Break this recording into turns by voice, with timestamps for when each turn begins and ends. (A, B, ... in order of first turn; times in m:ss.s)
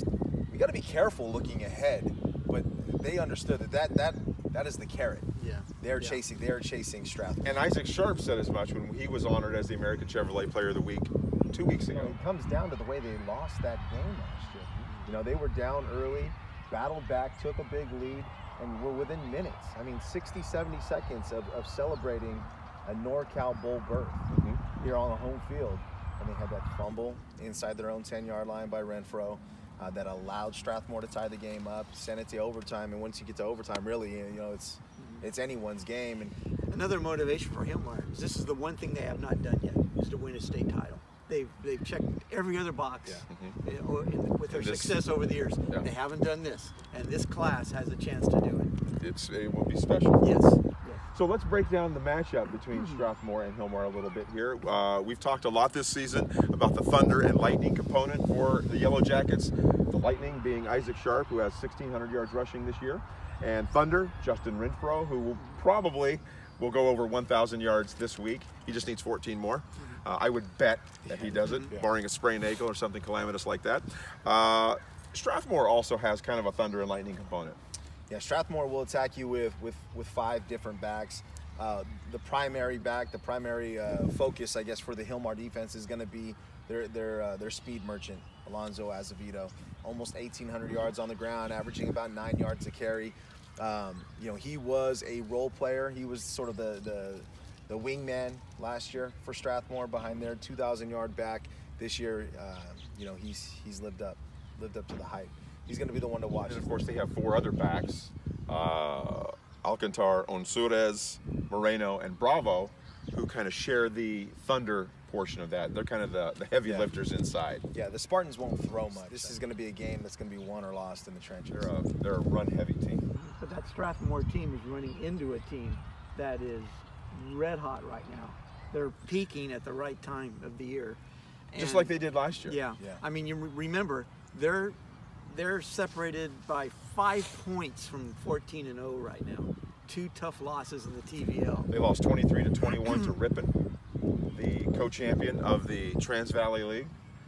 0:00.5-0:05.3 A
0:05.4-0:06.2 B
0:05.8-0:07.6 A
0:07.4-0:12.2 C
0:11.9-0:36.4 A
0:24.3-0:24.6 C
0:35.0-0:35.3 B
0:36.7-0:48.7 B
0:43.3-0:43.6 C
0:44.5-0:45.0 C
0:49.0-0:50.3 C
0:50.2-0:51.0 B
0:51.1-1:17.6 C
0:52.7-0:53.1 B
1:11.1-1:11.9 A
1:11.4-1:11.7 B
1:18.1-1:46.7 A
1:46.4-1:57.6 C
1:56.6-1:56.9 A
1:57.7-2:01.7 A
1:59.0-1:59.3 B
2:01.5-2:03.1 C
2:03.1-2:21.7 B
2:11.5-2:12.6 C
2:12.8-2:13.0 A
2:21.7-2:23.6 C
2:22.7-2:23.1 B
2:24.3-2:26.9 C